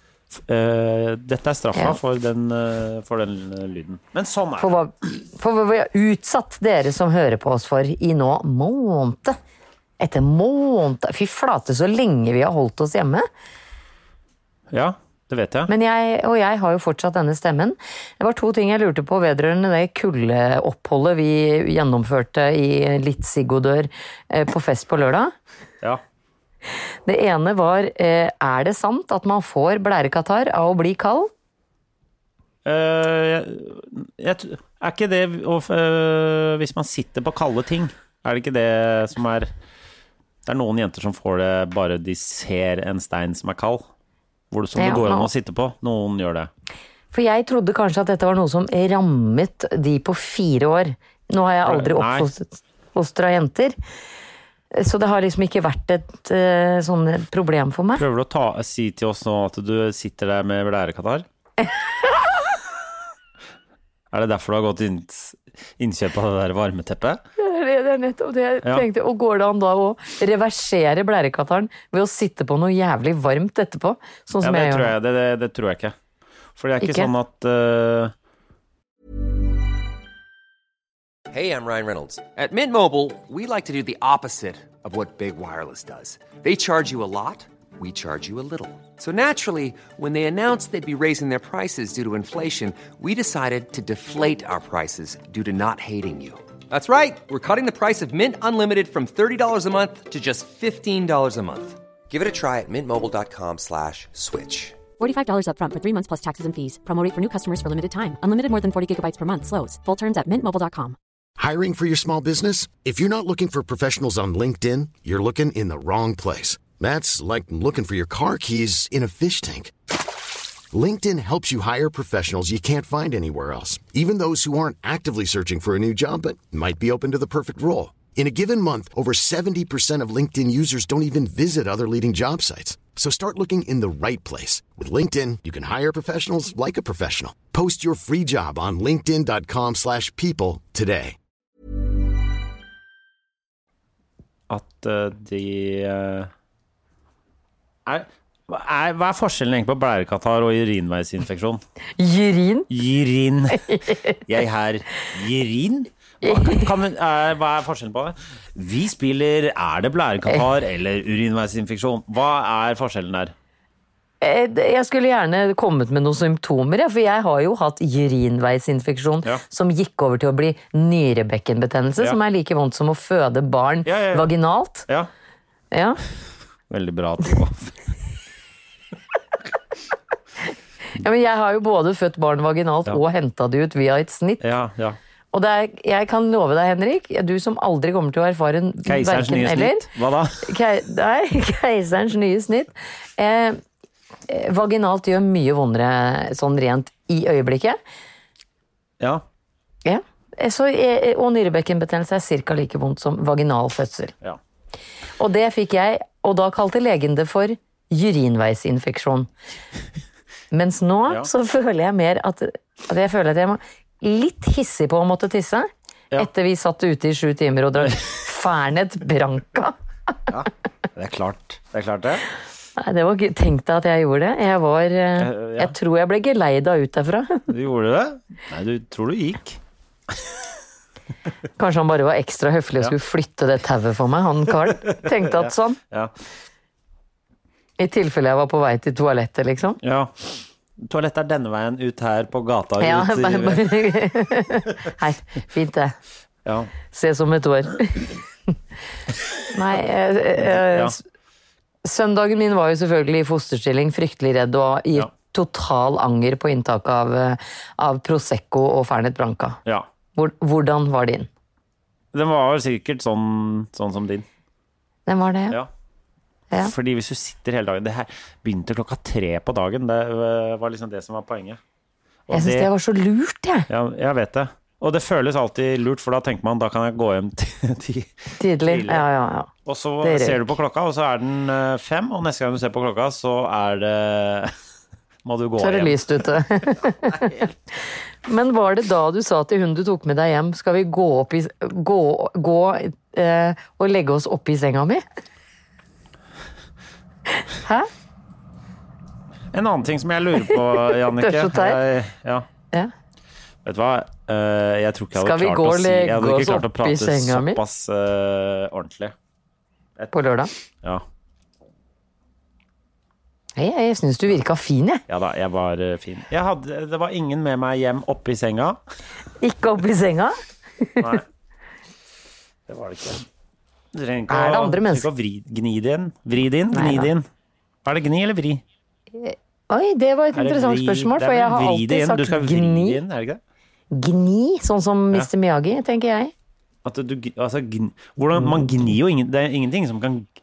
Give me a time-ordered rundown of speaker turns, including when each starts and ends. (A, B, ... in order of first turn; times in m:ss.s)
0:00.4-0:04.8 A
0:04.6-0:09.4 B
0:10.0-0:13.3 B
0:14.7-0:15.7 A
0:15.7-0:25.3 B
0:27.1-0:31.3 B
0:32.6-0:39.5 A
0:40.5-0:43.8 A
0:44.5-0:46.5 A
0:44.8-0:45.3 B
0:47.1-0:53.8 B
0:51.6-0:52.3 A
0:54.7-0:58.0 B
0:58.0-1:01.2 A
1:04.1-1:07.2 A
1:07.4-1:14.9 B
1:14.4-1:16.0 A
1:16.6-1:18.1 A
1:16.8-1:17.1 B
1:21.3-1:44.8 C
1:45.0-1:51.0 D
1:51.4-1:59.7 E
2:00.7-2:21.2 E
2:24.5-2:26.3 A
2:27.9-2:31.6 A
2:32.0-2:32.7 B
2:32.7-2:43.3 A
2:33.7-2:34.2 B
2:36.2-2:36.7 B
2:44.2-2:54.9 B
2:53.8-2:54.3 A
2:55.7-2:56.0 B
2:56.7-2:57.8 A
3:01.0-3:04.4 B
3:04.4-3:05.0 A
3:05.3-3:09.9 B
3:08.9-3:10.5 A
3:10.4-3:13.6 B
3:14.3-3:17.8 B
3:19.8-3:24.1 B
3:25.2-3:29.3 B
3:30.5-3:39.8 B
3:40.3-3:42.3 A
3:42.8-3:47.5 B
3:45.2-3:45.7 A
3:47.5-3:49.6 A
3:51.6-3:55.8 B
3:54.8-3:56.1 A
3:57.8-3:59.8 B
3:59.8-4:00.1 A
4:00.8-4:03.7 A
4:02.8-4:06.0 B
4:06.4-4:06.7 A
4:06.9-4:08.1 B
4:09.5-4:11.0 B
4:10.5-4:11.0 A
4:11.8-4:19.6 B
4:20.2-4:21.3 B
4:22.1-4:24.2 A
4:25.1-4:25.6 B
4:26.6-4:31.6 A
4:32.3-4:32.7 A
4:32.3-4:33.7 B
4:33.7-4:39.1 A
4:38.4-4:39.5 B
4:39.6-4:44.5 A
4:40.0-4:40.5 B
4:45.2-4:46.0 A
4:45.6-4:47.5 B
4:47.1-4:47.4 A
4:48.3-4:55.0 B
4:57.4-4:57.9 B
4:59.5-5:02.5 A
5:00.4-5:01.8 B
5:03.6-5:09.1 A
5:05.2-5:07.6 B
5:10.1-5:10.5 B
5:13.6-5:15.0 B
5:15.1-5:18.8 A
5:19.4-5:21.2 B
5:21.0-5:21.2 A
5:22.7-5:23.2 A
5:23.9-5:27.3 A
5:24.3-5:25.1 B
5:26.7-5:27.1 B
5:27.8-5:28.6 A
5:29.2-5:33.0 B
5:30.3-5:33.4 A
5:33.9-5:36.3 B
5:36.8-5:40.3 A